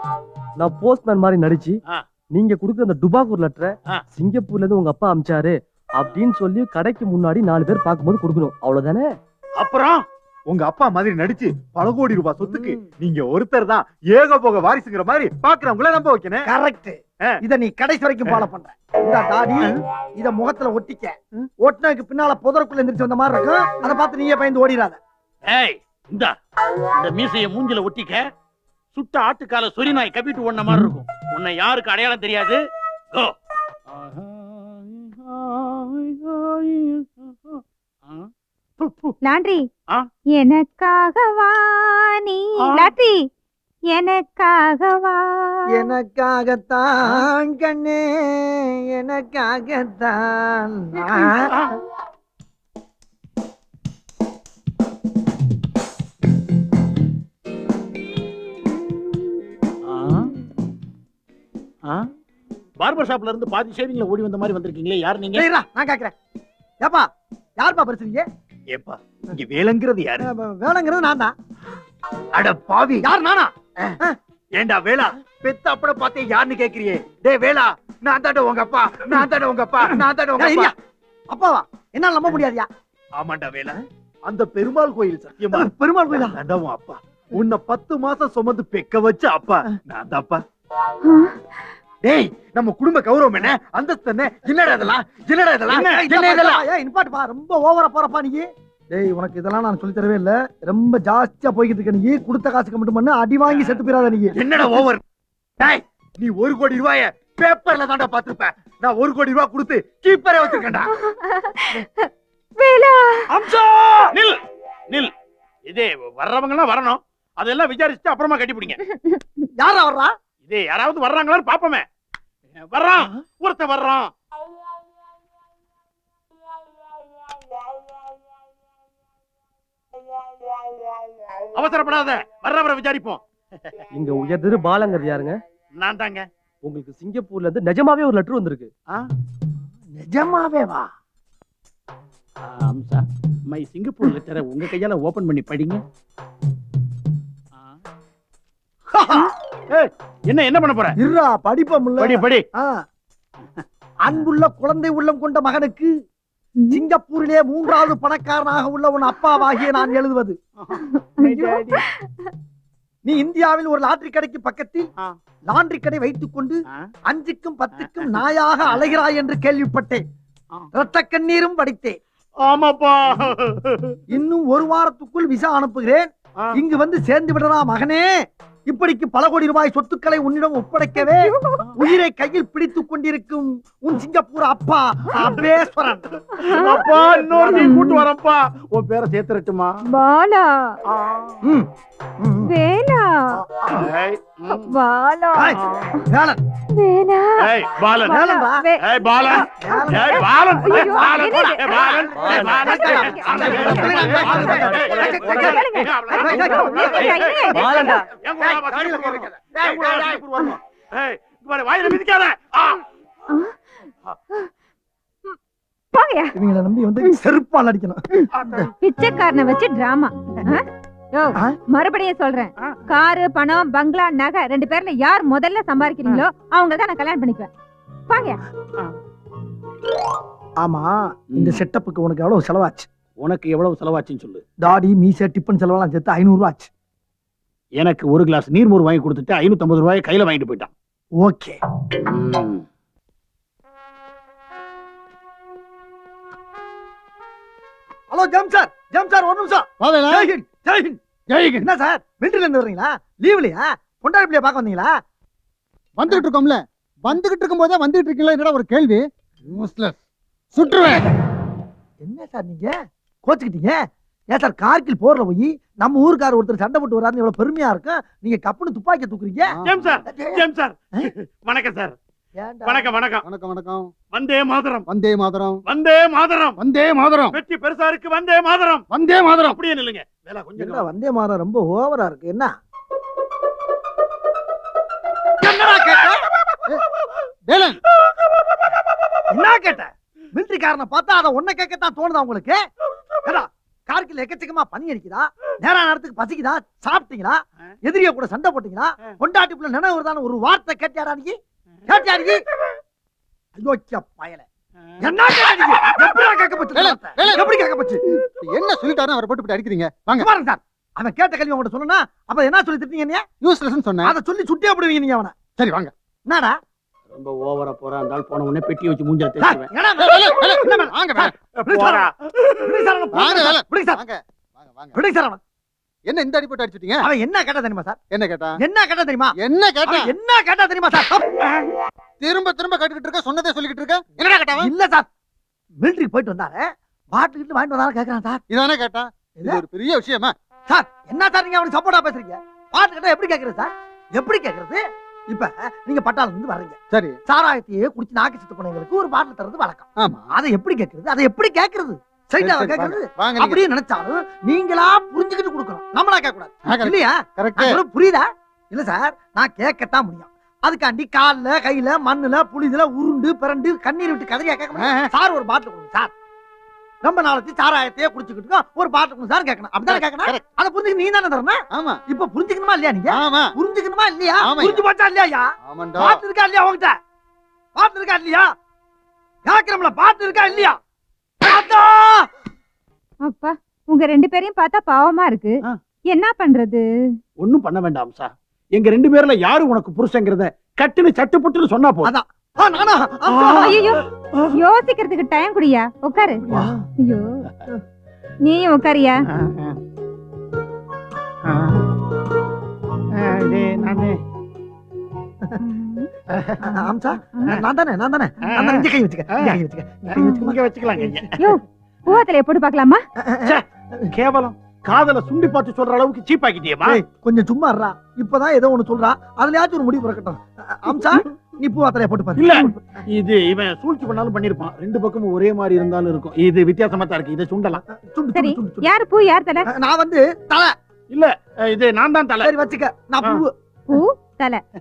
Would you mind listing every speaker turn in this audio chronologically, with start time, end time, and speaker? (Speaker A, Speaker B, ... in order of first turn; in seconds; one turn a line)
Speaker A: 0.6-1.8
Speaker A: 2.3-9.2
Speaker B: 9.6-10.0
Speaker C: 10.5-16.5
Speaker D: 12.4-12.8
Speaker D: 16.4-25.0
Speaker B: 25.5-26.3
Speaker B: 26.9-28.2
Speaker B: 28.9-32.6
Speaker B: 33.9-38.3
Speaker B: 38.8-39.1
Speaker E: 39.2-39.6
Speaker E: 40.4-43.2
Speaker B: 42.6-42.9
Speaker E: 43.9-45.9
Speaker D: 45.7-51.5
Speaker B: 51.1-51.8
Speaker B: 59.9-60.3
Speaker B: 62.8-65.5
Speaker D: 65.3-66.1
Speaker D: 66.8-67.1
Speaker D: 67.6-68.3
Speaker B: 68.8-70.0
Speaker C: 69.9-70.2
Speaker D: 70.2-71.3
Speaker C: 72.4-73.1
Speaker D: 73.0-73.5
Speaker C: 74.6-80.7
Speaker D: 80.4-80.7
Speaker D: 81.3-82.7
Speaker C: 83.2-83.8
Speaker C: 84.3-90.4
Speaker D: 85.5-86.4
Speaker E: 91.0-91.4
Speaker C: 92.0-96.6
Speaker D: 95.7-104.3
Speaker B: 104.4-105.0
Speaker C: 104.5-104.8
Speaker C: 106.2-110.9
Speaker E: 110.8-113.3
Speaker D: 113.3-114.1
Speaker B: 114.1-114.4
Speaker B: 115.7-118.8
Speaker E: 118.9-119.2
Speaker D: 119.6-120.1
Speaker B: 120.5-121.8
Speaker B: 122.6-124.1
Speaker B: 131.6-133.8
Speaker A: 133.9-135.4
Speaker B: 135.8-136.3
Speaker A: 136.6-138.7
Speaker D: 139.9-140.9
Speaker B: 142.4-145.8
Speaker D: 148.9-149.3
Speaker B: 149.7-151.0
Speaker D: 151.0-152.8
Speaker B: 152.0-152.4
Speaker D: 154.1-155.9
Speaker E: 156.6-156.8
Speaker D: 156.7-160.4
Speaker E: 159.6-159.9
Speaker B: 160.6-161.8
Speaker E: 160.7-162.3
Speaker D: 163.1-164.9
Speaker D: 165.5-170.0
Speaker B: 167.8-168.2
Speaker D: 170.7-172.0
Speaker B: 172.4-174.0
Speaker D: 174.1-178.1
Speaker D: 178.7-187.7
Speaker E: 181.0-181.7
Speaker E: 186.3-186.9
Speaker B: 186.4-189.7
Speaker E: 187.5-188.1
Speaker E: 189.9-190.7
Speaker B: 190.9-191.4
Speaker D: 191.4-191.7
Speaker D: 192.2-192.5
Speaker E: 192.4-193.4
Speaker D: 193.4-193.9
Speaker B: 193.7-194.7
Speaker E: 194.5-196.1
Speaker D: 195.4-196.4
Speaker B: 195.6-195.9
Speaker E: 196.7-202.0
Speaker B: 197.4-198.2
Speaker D: 198.1-198.7
Speaker B: 198.8-212.8
Speaker D: 199.4-200.3
Speaker D: 200.8-201.2
Speaker D: 201.8-205.5
Speaker A: 202.1-205.8
Speaker E: 202.6-204.1
Speaker E: 205.1-207.7
Speaker D: 206.1-207.0
Speaker A: 206.4-208.1
Speaker D: 208.4-210.2
Speaker C: 208.6-209.3
Speaker E: 213.3-213.6
Speaker E: 215.9-216.4
Speaker D: 216.3-218.7
Speaker B: 218.3-218.7
Speaker E: 218.8-227.5
Speaker E: 228.1-228.4
Speaker D: 230.6-232.9
Speaker B: 231.3-231.6
Speaker B: 233.2-234.4
Speaker D: 234.6-236.7
Speaker B: 237.8-240.7
Speaker D: 241.2-241.6
Speaker B: 242.0-242.6
Speaker D: 248.1-251.0
Speaker F: 249.8-250.3
Speaker F: 251.3-251.7
Speaker D: 251.6-254.9
Speaker F: 256.0-259.9
Speaker F: 260.5-261.1
Speaker D: 262.0-262.7
Speaker D: 263.3-263.8
Speaker D: 264.3-270.4
Speaker B: 269.6-271.9
Speaker D: 272.4-272.9
Speaker B: 272.7-273.2
Speaker F: 273.2-273.9
Speaker B: 274.1-274.9
Speaker F: 274.9-275.6
Speaker B: 275.7-276.6
Speaker F: 276.6-277.4
Speaker B: 277.3-278.9
Speaker F: 278.9-279.6
Speaker B: 279.5-280.9
Speaker D: 280.6-282.5
Speaker D: 285.4-286.2
Speaker F: 287.5-287.8
Speaker D: 289.3-292.6
Speaker D: 293.2-302.4
Speaker D: 303.6-304.5
Speaker D: 305.0-308.0
Speaker F: 306.8-307.5
Speaker F: 308.4-310.3
Speaker D: 310.2-313.2
Speaker F: 313.4-314.2
Speaker D: 314.0-315.4
Speaker F: 315.6-315.9
Speaker D: 316.3-316.6
Speaker B: 317.1-319.7
Speaker D: 319.4-322.1
Speaker F: 320.0-321.3
Speaker B: 321.7-322.7
Speaker D: 322.6-324.0
Speaker F: 323.1-325.0
Speaker D: 324.9-325.4
Speaker F: 326.1-327.1
Speaker D: 327.0-328.0
Speaker F: 328.1-328.6
Speaker D: 328.6-331.3
Speaker F: 329.4-330.1
Speaker F: 332.2-334.7
Speaker D: 334.6-335.1
Speaker D: 335.8-338.4
Speaker F: 338.5-340.4
Speaker D: 340.7-366.1
Speaker F: 346.9-347.2
Speaker F: 350.0-350.3
Speaker F: 352.4-353.6
Speaker F: 356.7-357.8
Speaker F: 364.8-365.1
Speaker D: 367.0-375.5
Speaker F: 369.9-370.4
Speaker F: 371.7-372.0
Speaker F: 373.1-373.5
Speaker F: 374.4-374.8
Speaker F: 375.6-376.2
Speaker D: 376.0-377.0
Speaker D: 377.8-378.5
Speaker D: 379.5-380.8
Speaker D: 381.4-382.3
Speaker E: 383.2-386.8
Speaker B: 387.4-392.1
Speaker D: 392.1-393.8
Speaker B: 393.3-394.6
Speaker E: 393.6-396.4
Speaker D: 396.4-396.8
Speaker E: 397.0-397.4
Speaker E: 398.5-399.3
Speaker B: 399.3-399.8
Speaker B: 401.5-401.8
Speaker B: 403.2-404.2
Speaker E: 403.5-404.0
Speaker E: 405.6-406.1
Speaker B: 406.3-406.7
Speaker E: 406.6-407.6
Speaker D: 406.6-411.2
Speaker B: 408.5-409.5
Speaker B: 410.1-411.4
Speaker E: 410.2-410.4
Speaker E: 411.4-413.0
Speaker D: 413.2-414.1
Speaker B: 413.5-417.0
Speaker D: 416.9-422.8
Speaker B: 422.4-427.8
Speaker D: 427.9-428.9
Speaker E: 428.3-429.7
Speaker D: 429.7-430.7
Speaker B: 431.1-432.5
Speaker D: 432.4-433.5
Speaker E: 433.9-434.6